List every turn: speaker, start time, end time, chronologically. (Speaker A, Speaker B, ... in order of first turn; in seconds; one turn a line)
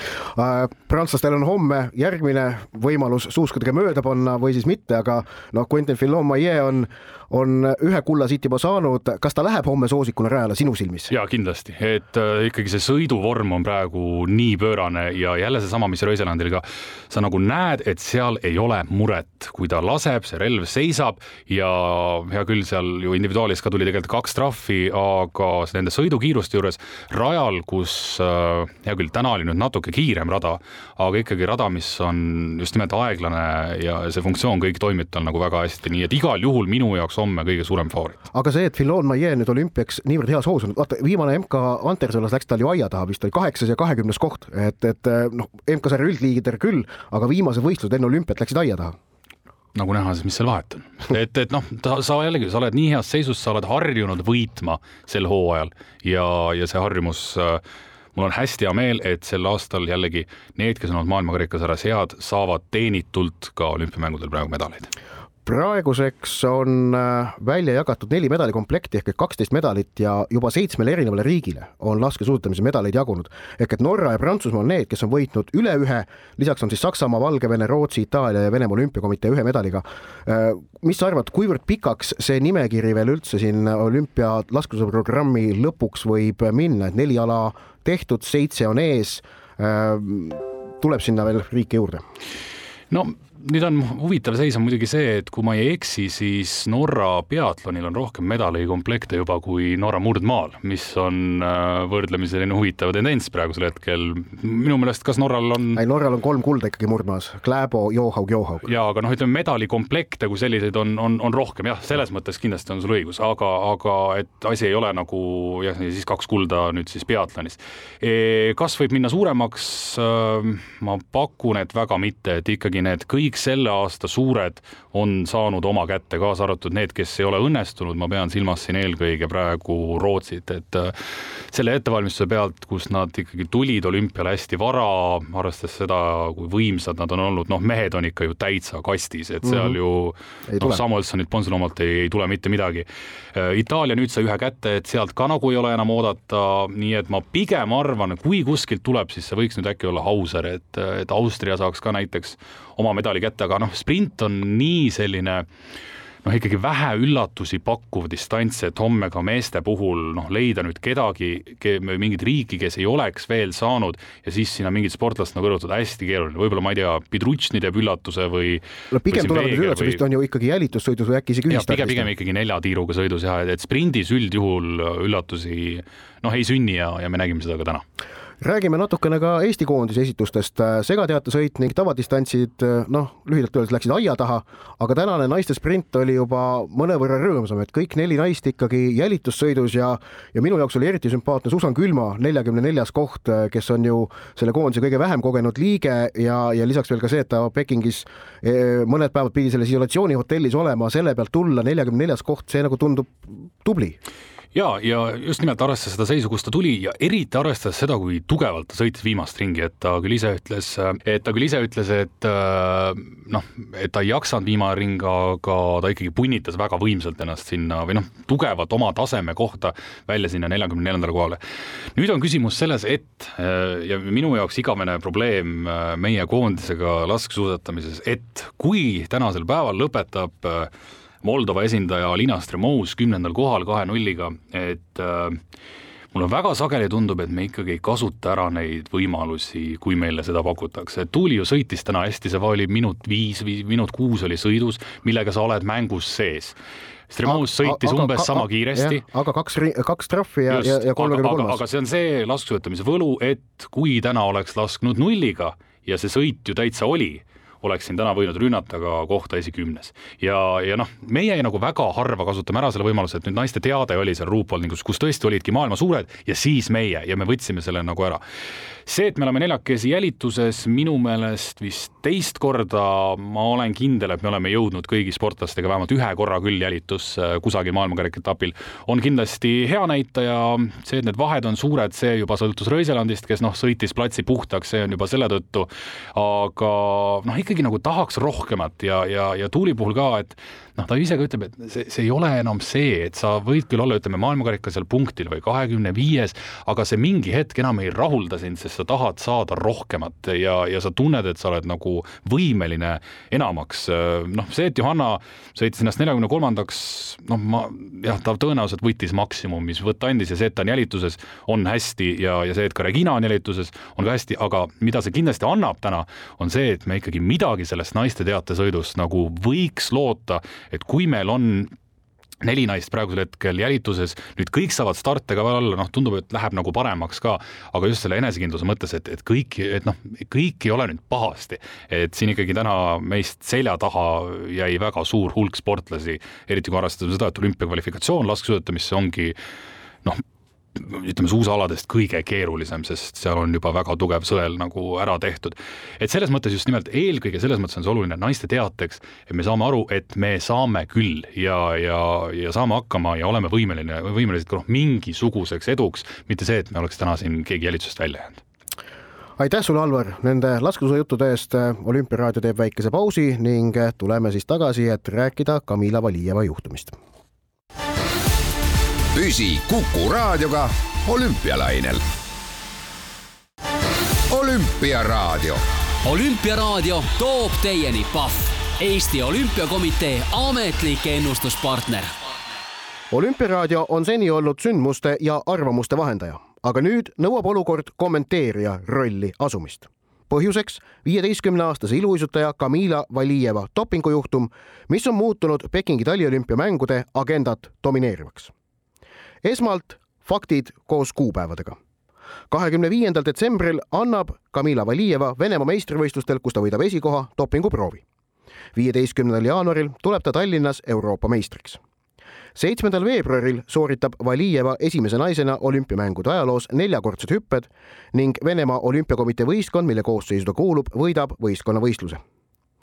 Speaker A: 0.3-11.1
Speaker B: 11.1-38.2
Speaker A: 38.3-49.0
Speaker B: 49.8-57.6
Speaker B: 58.1-64.9
Speaker A: 65.5-92.0
Speaker B: 92.9-105.8
Speaker A: 105.8-108.7
Speaker B: 108.6-131.0
Speaker B: 131.5-155.5
Speaker A: 139.4-139.8
Speaker A: 140.5-140.8
Speaker B: 156.2-170.0
Speaker A: 168.9-172.1
Speaker B: 171.5-177.8
Speaker A: 178.4-204.0
Speaker B: 204.5-221.4
Speaker B: 221.9-230.7
Speaker B: 231.2-235.4
Speaker B: 236.1-246.6
Speaker B: 247.1-249.1
Speaker A: 247.2-251.6
Speaker B: 250.5-268.2
Speaker B: 268.9-321.7
Speaker B: 322.4-339.4
Speaker B: 340.8-358.4
Speaker A: 359.4-367.0
Speaker C: 369.1-372.1
Speaker C: 374.3-375.6
Speaker D: 376.0-382.3
Speaker A: 383.1-398.5
Speaker A: 399.4-401.8
Speaker A: 402.5-408.0
Speaker A: 408.8-411.8
Speaker A: 412.6-422.2